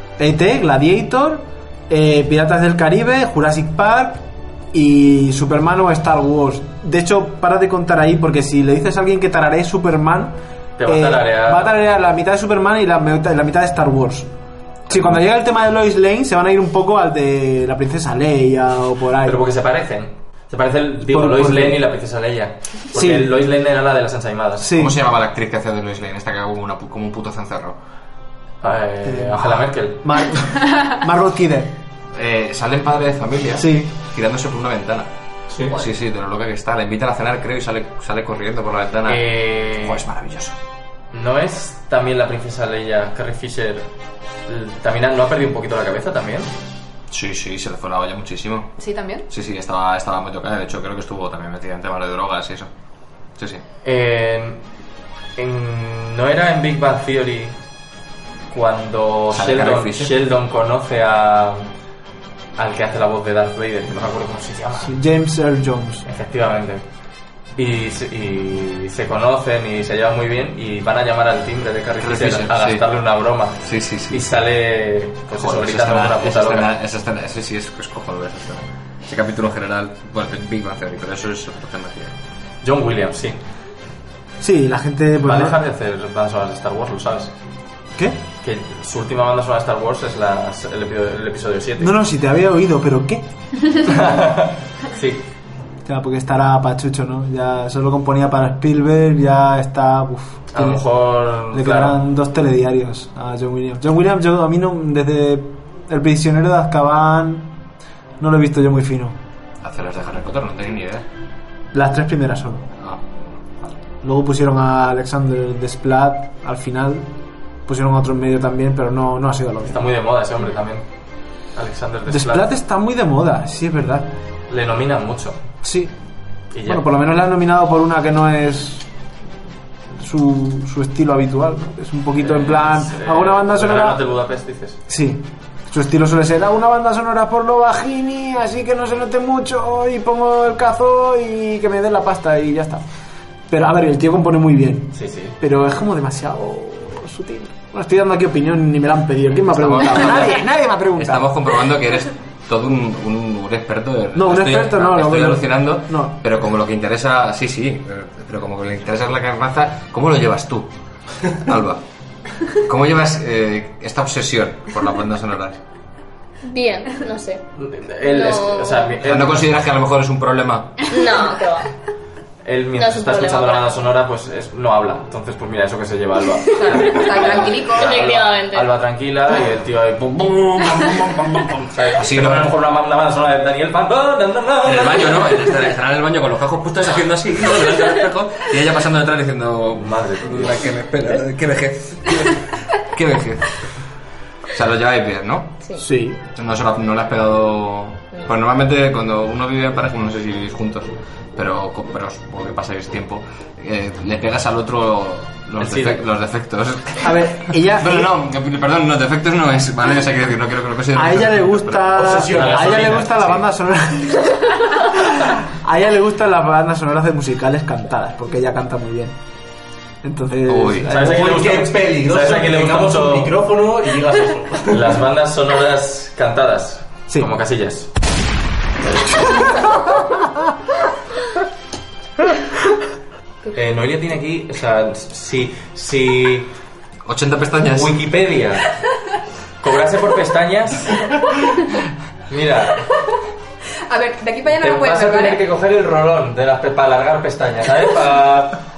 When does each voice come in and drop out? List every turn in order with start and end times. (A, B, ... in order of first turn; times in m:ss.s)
0:00.2-0:10.4 A
0:10.8-0:11.8 B
0:10.9-0:14.3 A
0:14.9-0:19.4 A
0:19.2-0:24.7 B
0:21.0-0:21.8 A
0:22.9-0:23.3 A
0:24.6-0:25.0 A
0:24.7-0:27.8 C
0:28.6-0:30.1 B
0:29.0-0:31.7 A
0:32.1-0:35.1 C
0:33.6-0:33.9 A
0:35.5-0:35.8 D
0:35.7-0:40.6 C
0:39.1-0:40.0 B
0:41.1-0:43.9 B
0:44.5-0:46.5 B
0:47.1-0:48.8 C
0:48.8-0:49.3 E
0:49.3-0:52.7 C
0:53.4-0:53.6 C
0:53.8-0:54.6 B
0:55.4-0:57.6 B
0:58.5-1:01.7 B
0:59.3-1:00.2 C
1:02.6-1:05.0 B
1:04.8-1:06.0 A
1:06.0-1:06.8 B
1:07.6-1:16.7 B
1:12.0-1:12.8 C
1:13.6-1:14.2 C
1:15.3-1:22.2 C
1:22.6-1:23.4 B
1:24.4-1:25.6 A
1:25.2-1:27.3 B
1:28.4-1:31.9 B
1:31.8-1:33.3 A
1:33.8-1:35.3 B
1:35.8-1:40.8 A
1:40.5-1:42.0 B
1:41.5-1:47.6 A
1:48.2-1:49.2 A
1:49.6-1:51.0 C
1:51.7-1:52.7 A
1:52.8-1:53.4 C
1:54.0-1:57.1 A
1:57.7-1:59.9 A
1:59.6-2:00.9 B
2:01.6-2:02.5 B
2:02.1-2:04.1 A
2:04.5-2:05.4 B
2:05.6-2:05.9 A
2:06.5-2:06.8 B
2:06.6-2:08.9 A
2:09.9-2:14.0 A
2:12.2-2:14.8 B
2:14.9-2:22.8 A
2:23.5-2:31.3 A
2:24.9-2:25.4 B
2:29.5-2:40.7 C
2:34.2-2:36.2 A
2:41.2-2:41.8 C
2:42.5-2:45.6 C
2:46.5-2:47.4 F
2:47.6-2:49.6 B
2:48.0-2:48.9 F
2:49.0-2:50.8 C
2:50.9-2:51.7 F
2:52.4-3:05.5 B
2:52.8-2:53.9 F
2:56.5-2:58.0 E
2:57.0-2:58.7 F
3:00.2-3:02.6 C
3:04.6-3:13.7 C
3:09.8-3:10.6 B
3:14.5-3:15.8 C
3:15.8-3:16.2 A
3:16.4-3:33.4 C
3:25.6-3:26.0 B
3:27.0-3:28.1 A
3:30.9-3:39.2 A
3:32.0-3:33.2 D
3:40.0-3:41.3 A
3:40.5-3:40.9 C
3:40.8-3:43.4 B
3:40.9-3:44.9 D
3:44.7-3:47.9 B
3:53.5-3:56.5 B
3:57.1-3:58.0 C
3:57.7-3:58.7 B
3:59.6-4:01.1 B
4:02.3-4:02.9 B
4:03.9-4:05.4 E
4:04.6-4:08.6 B